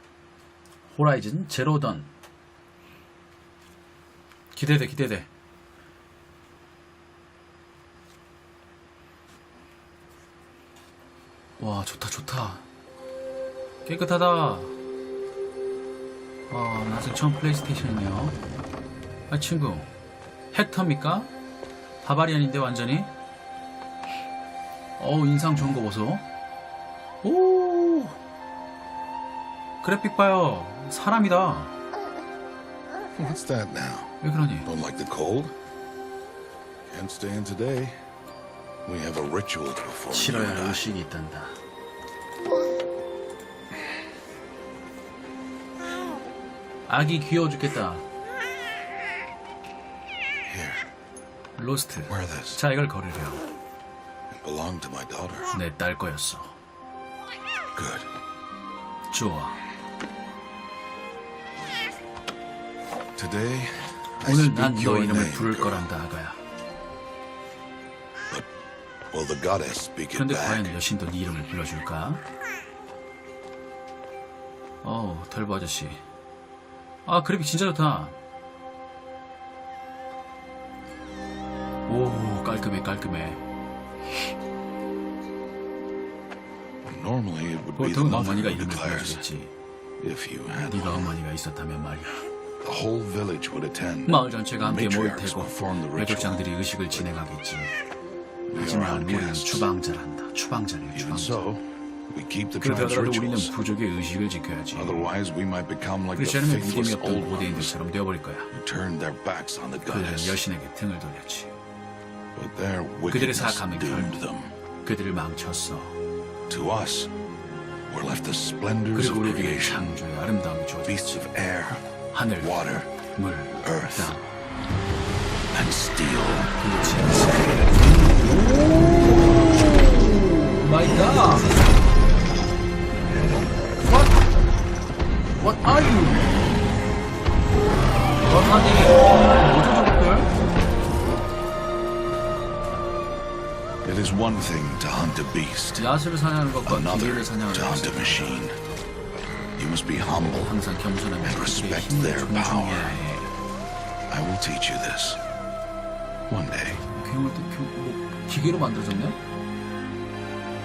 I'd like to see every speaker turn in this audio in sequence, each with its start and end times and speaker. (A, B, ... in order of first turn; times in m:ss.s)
0:00.9-0:02.1 A
0:04.5-0:05.3 A
0:11.6-0:12.6 A
0:13.8-0:14.7 A
0:16.5-0:18.4 A
0:19.3-0:19.9 A
0:20.5-0:21.3 A
0:22.0-0:23.1 A
0:25.0-0:26.2 A
0:27.2-0:28.2 A
0:29.8-0:31.8 A
0:33.2-0:35.5 B
0:34.2-0:34.7 A
0:36.9-0:38.0 B
0:38.8-0:40.9 B
0:40.1-0:41.6 A
0:46.9-0:48.0 A
0:50.4-0:50.8 B
0:51.6-0:53.4 A
0:52.1-0:52.6 B
0:54.3-0:55.5 B
0:55.5-0:56.6 A
0:57.7-0:58.1 B
0:59.1-0:59.6 A
1:03.2-1:05.9 B
1:04.2-1:06.4 A
1:09.1-1:10.8 B
1:10.1-1:12.2 A
1:14.8-1:16.0 A
1:17.0-1:18.2 A
1:21.9-1:23.4 A
1:26.8-1:29.2 B
1:27.8-1:29.5 A
1:30.0-1:31.1 B
1:30.7-1:32.2 A
1:32.6-1:37.1 B
1:34.0-1:37.7 A
1:38.5-1:41.4 A
1:38.5-1:39.7 B
1:40.9-1:43.5 B
1:42.6-1:45.1 A
1:44.7-1:47.8 B
1:46.1-1:48.5 A
1:48.5-1:50.4 B
1:49.8-1:51.5 A
1:52.3-1:54.5 B
1:53.1-1:54.2 A
1:54.8-1:56.0 A
1:56.5-1:57.1 B
1:57.9-2:00.0 B
1:58.9-2:01.2 A
2:00.8-2:01.8 B
2:02.1-2:02.6 A
2:02.4-2:02.9 B
2:03.2-2:04.2 A
2:03.6-2:04.2 B
2:05.5-2:06.5 B
2:06.6-2:11.5 A
2:13.8-2:14.2 A
2:15.4-2:16.5 A
2:18.2-2:20.3 A
2:23.8-2:25.9 B
2:25.8-2:28.4 A
2:26.6-2:28.6 B
2:29.6-2:30.5 B
2:30.1-2:33.3 A
2:31.2-2:33.1 B
2:34.1-2:35.2 B
2:36.3-2:36.8 B
2:36.9-2:39.2 A